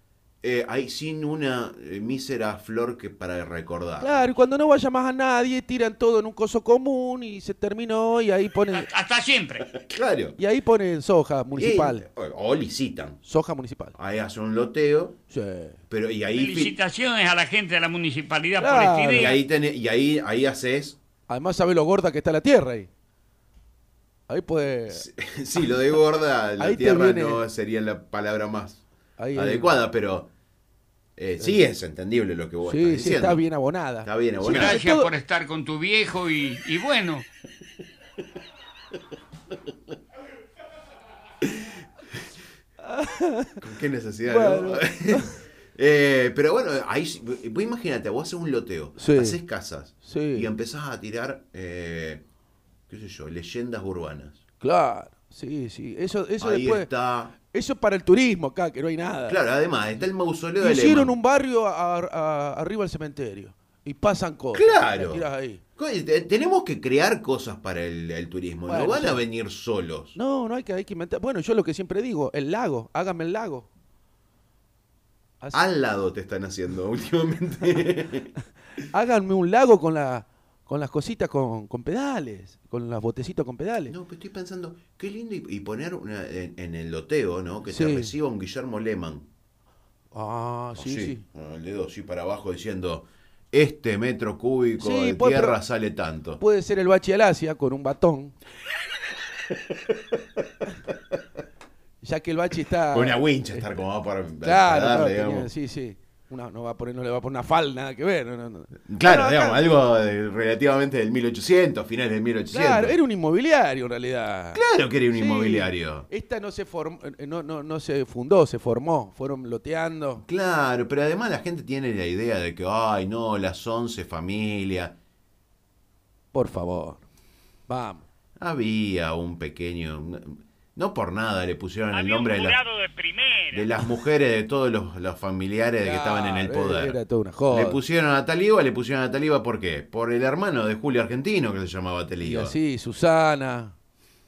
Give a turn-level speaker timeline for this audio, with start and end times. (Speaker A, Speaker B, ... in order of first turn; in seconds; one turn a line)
Speaker A: 0.4-4.3
Speaker B: 4.0-8.9
Speaker C: 8.7-9.7
Speaker A: 9.7-10.4
Speaker B: 10.4-12.1
Speaker A: 11.6-13.2
Speaker B: 13.2-13.9
Speaker A: 13.9-15.2
Speaker B: 15.3-15.8
Speaker A: 15.9-16.8
Speaker C: 16.3-19.4
Speaker B: 18.6-19.4
Speaker A: 19.1-21.0
Speaker B: 21.3-22.9
Speaker B: 24.3-25.1
Speaker A: 24.9-28.8
Speaker B: 26.6-27.4
Speaker B: 29.2-29.8
Speaker A: 29.4-30.3
Speaker A: 31.2-33.4
Speaker B: 32.6-35.1
Speaker A: 34.0-34.8
Speaker C: 34.5-37.2
Speaker A: 41.4-41.7
Speaker B: 42.8-43.6
Speaker A: 43.6-52.2
Speaker B: 44.2-45.3
Speaker B: 49.0-49.4
Speaker B: 50.0-50.5
Speaker A: 52.9-54.4
Speaker B: 54.6-56.9
Speaker A: 56.4-57.3
Speaker B: 57.5-59.4
Speaker A: 59.3-61.1
Speaker B: 60.6-65.6
Speaker A: 64.5-65.2
Speaker A: 65.8-70.2
Speaker B: 68.7-69.2
Speaker B: 70.2-73.7
Speaker A: 75.5-78.3
Speaker B: 78.9-83.9
Speaker A: 83.9-89.3
Speaker B: 87.7-88.1
Speaker B: 90.1-91.2
Speaker A: 90.8-96.4
Speaker B: 94.8-95.6
Speaker B: 96.4-98.3
Speaker A: 99.7-100.2
Speaker B: 102.0-103.7
Speaker A: 102.9-105.5
Speaker B: 104.4-109.6
Speaker A: 108.9-113.0
Speaker B: 112.5-120.2
Speaker A: 114.5-116.1
Speaker A: 120.2-125.0
Speaker B: 126.3-127.0
Speaker B: 127.7-128.1
Speaker A: 128.4-132.6
Speaker C: 131.9-133.7
Speaker A: 133.5-137.0
Speaker B: 135.8-137.8
Speaker A: 137.5-142.5
Speaker B: 142.2-143.7